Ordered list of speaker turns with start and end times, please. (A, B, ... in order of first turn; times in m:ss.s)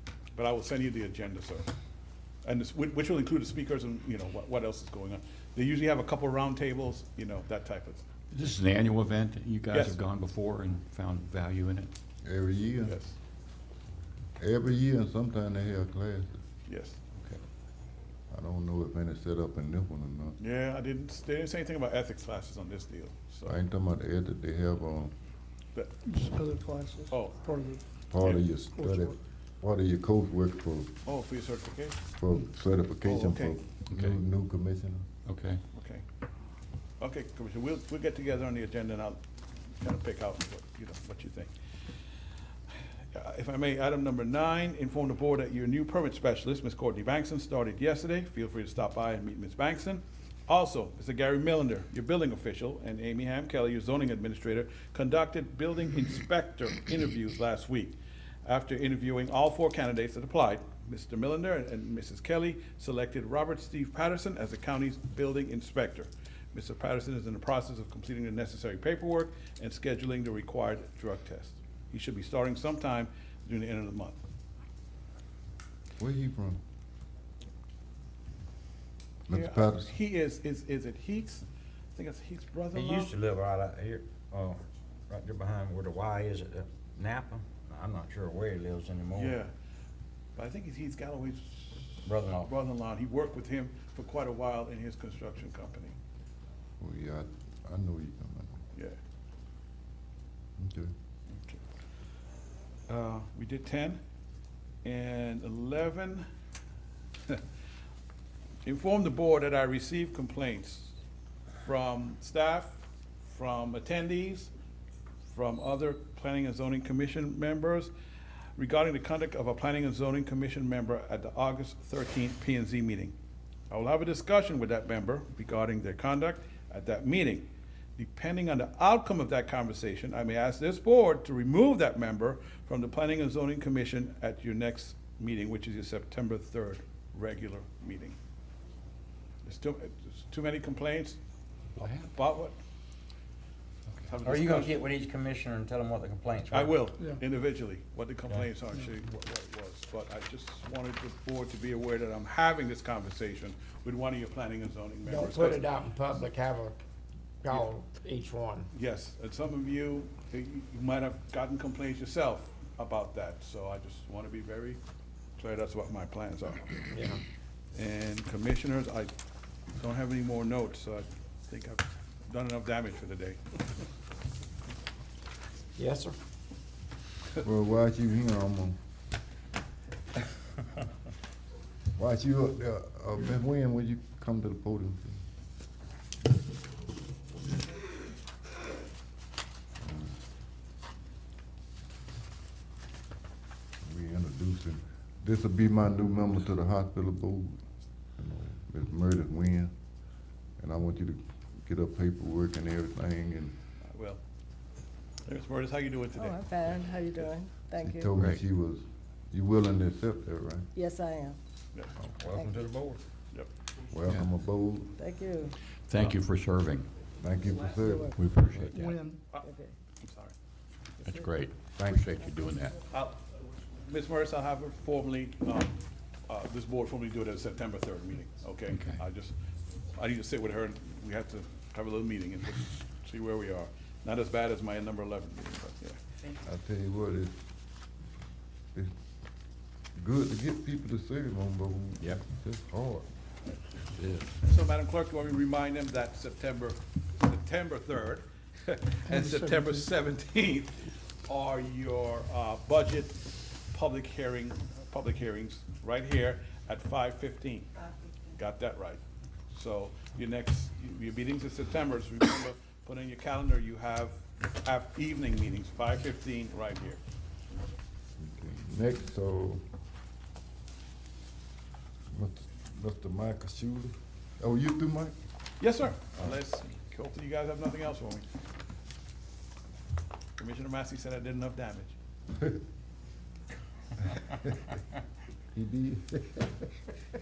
0:00.4-0:01.7 A
0:02.4-0:08.0 A
0:08.3-0:11.9 B
0:09.7-0:10.0 A
0:12.2-0:13.0 C
0:12.8-0:13.2 A
0:14.4-0:16.4 C
0:16.7-0:17.0 A
0:18.3-0:20.4 C
0:20.4-0:23.6 A
0:23.4-0:25.1 C
0:26.0-0:27.8 D
0:27.1-0:27.4 A
0:28.1-0:31.0 C
0:28.2-0:28.4 A
0:28.7-0:29.1 D
0:31.0-0:32.0 A
0:32.1-0:35.0 C
0:33.0-0:33.5 A
0:35.7-0:36.0 A
0:37.0-0:39.2 A
0:39.8-0:41.5 A
0:43.1-1:14.2 A
1:16.0-1:16.6 C
1:19.3-1:19.9 C
1:19.3-1:23.1 A
1:22.7-1:29.4 E
1:29.1-1:29.5 A
1:30.3-1:31.8 A
1:32.0-1:32.5 E
1:32.4-1:35.9 A
1:36.8-1:38.6 C
1:40.6-1:40.9 C
1:42.9-1:44.0 A
1:44.8-1:46.3 A
1:48.6-1:50.9 A
1:51.6-1:54.5 A
1:55.3-1:57.9 A
1:58.6-2:03.1 A
2:03.7-2:18.2 A
2:19.4-2:21.2 A
2:21.8-2:22.5 A
2:24.1-2:24.9 A
2:24.2-2:26.8 E
2:26.5-2:35.7 A
2:35.0-2:36.8 F
2:37.4-2:38.7 F
2:38.7-2:44.8 A
2:45.4-2:46.9 A
2:46.9-2:47.2 F
2:47.7-2:49.1 A
2:49.8-2:53.4 A
2:55.8-2:56.2 F
2:57.4-2:58.8 C
3:01.9-3:05.2 C
3:09.8-3:10.1 C
3:13.8-3:17.6 C
3:18.2-3:19.7 C
3:20.6-3:23.6 C
3:23.9-3:24.2 A
3:25.2-3:27.3 A
3:26.1-3:28.2 G
3:27.8-3:30.7 C
3:30.7-3:31.4 G
3:32.2-3:33.0 E
3:33.9-3:34.9 C
3:35.0-3:35.6 G
3:37.2-3:38.6 C
3:37.8-3:38.3 G
3:38.1-3:38.7 B
3:38.7-3:39.3 D
3:39.3-3:39.7 G
3:40.0-3:40.3 A
3:41.0-3:42.3 B
3:41.7-3:42.1 E
3:42.9-3:43.2 A
3:43.8-3:49.4 A
3:48.7-3:49.0 B
3:49.9-3:56.0 A
3:56.4-3:57.4 C
4:00.0-4:03.1 C
4:04.4-4:17.7 A
4:09.1-4:09.9 D
4:18.3-4:19.0 A
4:19.5-4:27.0 A
4:28.2-4:29.6 C
4:32.1-4:35.2 C
4:35.6-4:38.2 A
4:40.4-4:41.9 A
4:45.5-4:46.6 C